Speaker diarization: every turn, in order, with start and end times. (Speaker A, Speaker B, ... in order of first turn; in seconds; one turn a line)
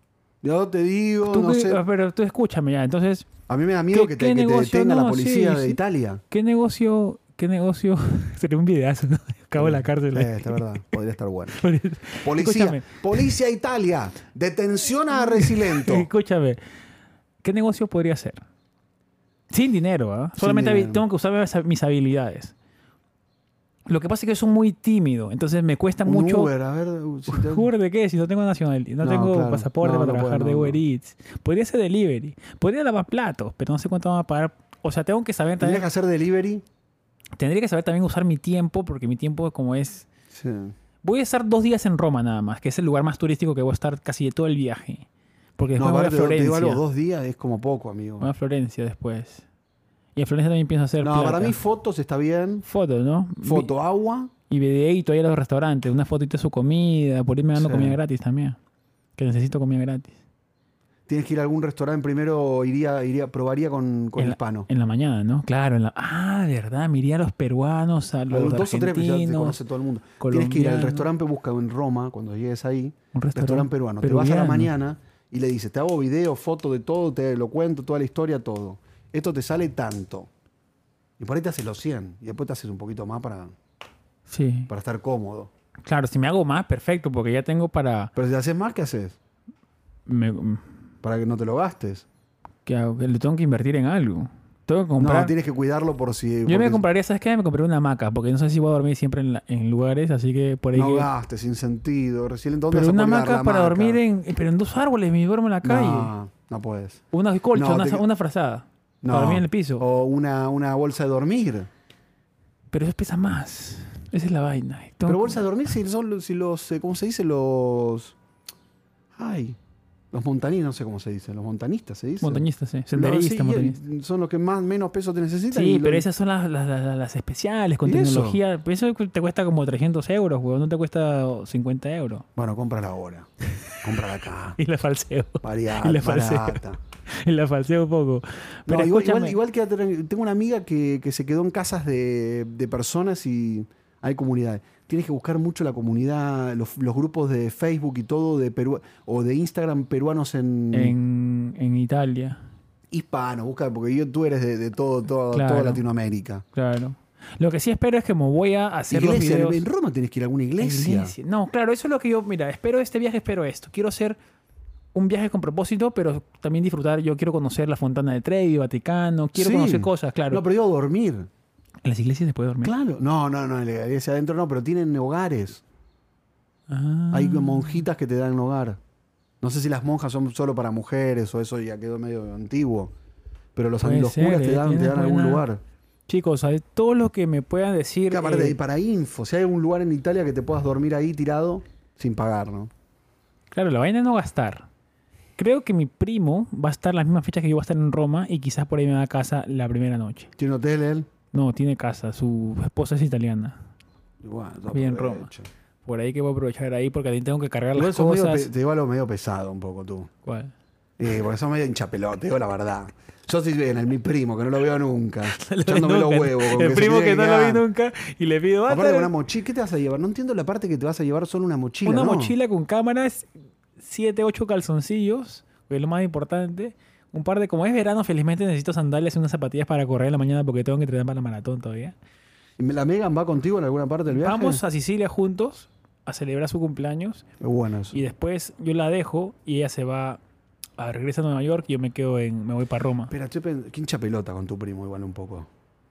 Speaker A: 0.4-1.8
Speaker B: 1.2-3.3
Speaker A: 3.5-6.2
Speaker B: 3.9-5.8
Speaker B: 6.3-10.7
Speaker A: 9.6-11.7
Speaker B: 11.5-13.3
Speaker A: 12.2-16.1
Speaker B: 15.2-16.6
Speaker B: 17.4-18.4
Speaker B: 19.5-22.5
Speaker A: 20.4-21.0
Speaker B: 23.9-26.5
Speaker A: 26.1-27.7
Speaker B: 27.3-35.9
Speaker A: 29.0-30.8
Speaker A: 35.6-36.6
Speaker B: 37.4-40.1
Speaker A: 40.3-40.8
Speaker B: 41.0-46.8
Speaker A: 45.8-48.3
Speaker B: 48.2-49.5
Speaker B: 50.2-51.6
Speaker A: 51.0-52.6
Speaker B: 52.6-53.7
Speaker A: 53.4-54.3
Speaker B: 54.5-58.6
Speaker A: 57.5-58.0
Speaker B: 59.2-60.1
Speaker A: 61.1-64.7
Speaker B: 64.2-69.6
Speaker A: 68.3-80.3
Speaker B: 70.2-71.1
Speaker B: 73.1-74.7
Speaker A: 81.2-83.5
Speaker B: 84.3-84.7
Speaker A: 84.7-85.5
Speaker B: 85.8-88.1
Speaker A: 88.2-89.2
Speaker B: 90.1-90.7
Speaker A: 91.0-92.1
Speaker B: 92.7-95.3
Speaker A: 95.0-96.8
Speaker B: 96.5-101.1
Speaker A: 100.7-104.0
Speaker B: 102.7-106.1
Speaker A: 105.6-107.0
Speaker B: 107.1-109.8
Speaker A: 107.5-108.0
Speaker A: 109.0-111.7
Speaker B: 112.7-115.5
Speaker A: 115.1-118.2
Speaker A: 119.2-119.6
Speaker A: 120.1-126.1
Speaker B: 122.2-123.8
Speaker B: 125.5-132.2
Speaker A: 127.8-128.4
Speaker A: 132.4-133.3
Speaker A: 133.8-134.6
Speaker B: 134.6-139.4
Speaker A: 135.4-136.8
Speaker A: 138.7-151.0
Speaker B: 150.7-152.4
Speaker A: 152.9-156.4
Speaker B: 155.3-155.8
Speaker B: 156.5-159.6
Speaker A: 158.9-161.2
Speaker B: 160.6-164.2
Speaker B: 164.9-170.4
Speaker A: 169.3-171.3
Speaker B: 171.8-172.7
Speaker A: 172.6-175.6
Speaker B: 176.7-177.9
Speaker A: 177.1-178.8
Speaker A: 179.4-182.9
Speaker A: 183.6-185.6
Speaker B: 183.8-185.4
Speaker B: 186.1-188.6
Speaker A: 188.1-192.7
Speaker B: 193.5-194.7
Speaker B: 195.4-200.3
Speaker A: 200.4-201.1
Speaker B: 201.3-203.6
Speaker A: 204.2-205.5
Speaker B: 204.7-205.3
Speaker B: 205.8-208.5
Speaker A: 207.8-210.1
Speaker B: 210.2-210.5
Speaker A: 211.0-217.7
Speaker B: 215.3-219.1
Speaker A: 218.7-222.3
Speaker B: 221.8-231.9
Speaker A: 232.6-234.6
Speaker B: 234.1-237.2
Speaker A: 237.4-238.0
Speaker B: 237.9-240.2
Speaker B: 240.8-243.1
Speaker A: 243.1-245.5